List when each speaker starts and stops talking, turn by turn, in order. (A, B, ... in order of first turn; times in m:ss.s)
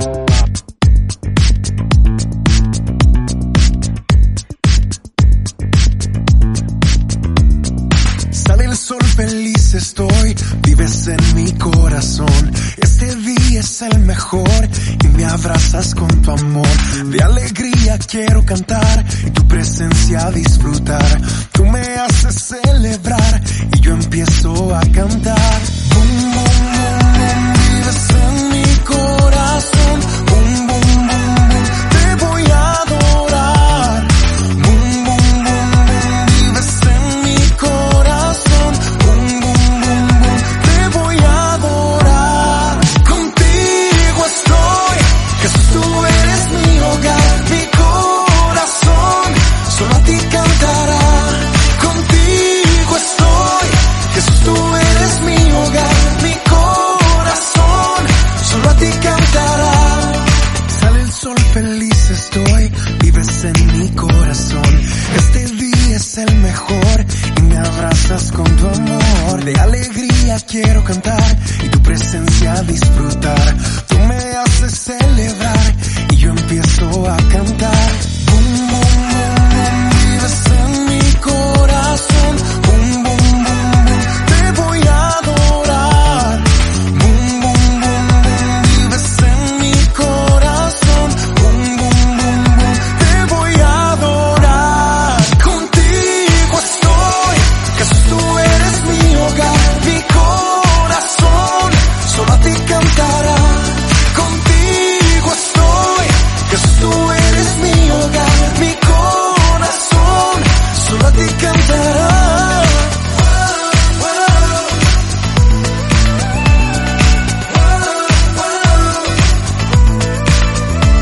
0:08.3-1:54.7 A
1:57.5-1:59.0 A